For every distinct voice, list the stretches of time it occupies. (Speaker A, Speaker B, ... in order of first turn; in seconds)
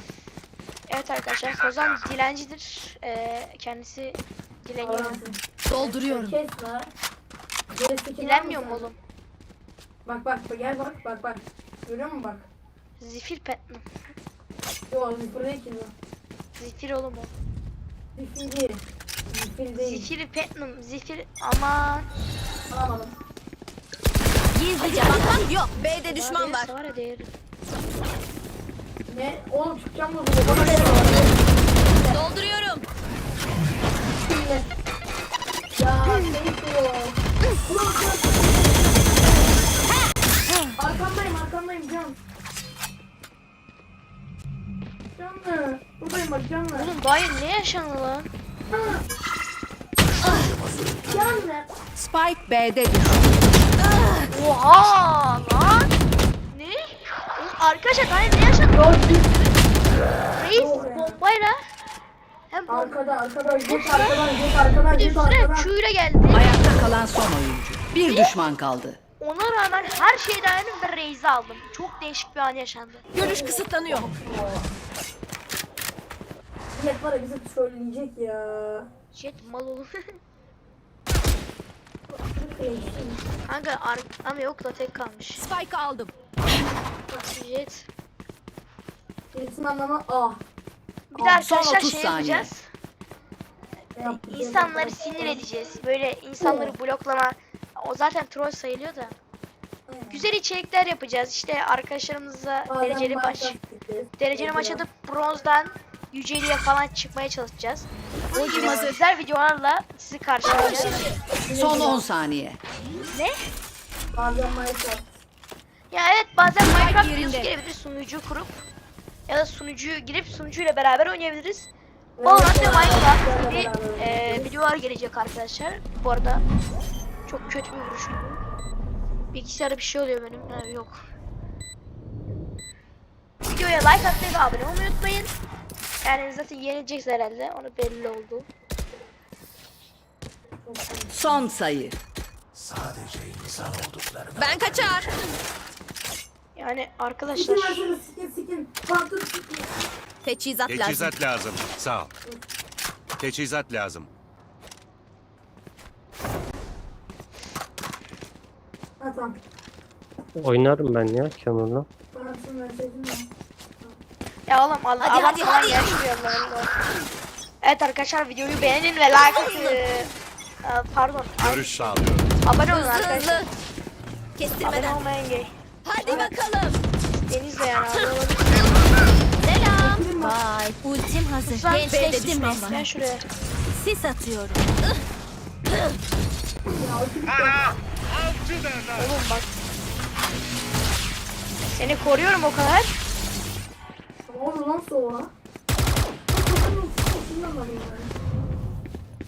Speaker A: 0.9-5.2, 8.2-9.0, 13.0-13.8, 16.6-17.3, 19.8-22.1, 24.8-27.3, 46.7-48.3, 54.3-55.9, 56.5-58.9, 60.4-61.6, 62.5-63.0, 63.7-64.2, 64.9-66.5, 68.1-68.4, 69.2-73.1, 79.1-79.9, 83.5-85.5, 87.1-87.9, 91.1-92.7, 94.0-99.2, 100.1-103.6, 104.2-111.0, 113.1-113.4, 115.9-118.6, 119.3-121.7, 122.2-126.4, 127.3-128.4, 129.3-131.0, 133.4-135.3, 136.0-138.5, 146.6-147.9, 164.5-166.7, 167.6-170.1, 170.6-173.5, 174.6-176.3, 177.1-178.5, 181.4-183.2, 189.0-189.6, 191.8-192.9
Speaker B: 4.8-6.9, 7.7-8.9, 10.1-12.5, 14.9-15.9, 18.2-20.1, 22.7-23.1, 29.1-31.4, 34.2-34.7, 35.8-39.1, 40.8-42.2, 45.2-46.9, 48.7-49.0, 51.1-51.7, 58.7-59.4, 60.5-61.2, 62.7-65.7, 73.2-74.7, 76.7-78.9, 82.1-83.2, 89.3-90.4, 94.0-95.4, 96.4-96.7, 99.9-100.3, 102.7-104.8, 110.4-112.0, 114.1-115.1, 122.2-124.5, 140.6-141.4, 147.3-149.7, 159.0-159.4, 162.1-163.3, 176.1-176.3, 179.8-180.4, 186.7-187.7, 194.3-195.3, 196.3-198.1
Speaker C: 5.7-6.4, 24.5-26.7, 30.4-31.3, 32.0-32.9, 73.1-74.1, 85.3-86.1, 108.3-109.0, 110.6-110.9, 116.7-117.5, 144.4-145.1, 150.2-151.1, 165.0-166.0, 169.1-169.8, 172.7-173.5, 174.4-175.0, 175.8-176.8, 179.4-182.8, 183.7-184.7
Speaker D: 50.7-51.1, 142.8-143.6, 160.4-161.9
Speaker E: 52.0-53.4, 66.3-69.0, 91.2-92.5, 111.5-112.6, 141.1-142.0
Speaker F: 150.7-152.1, 153.2-154.1, 171.4-172.3, 188.2-189.1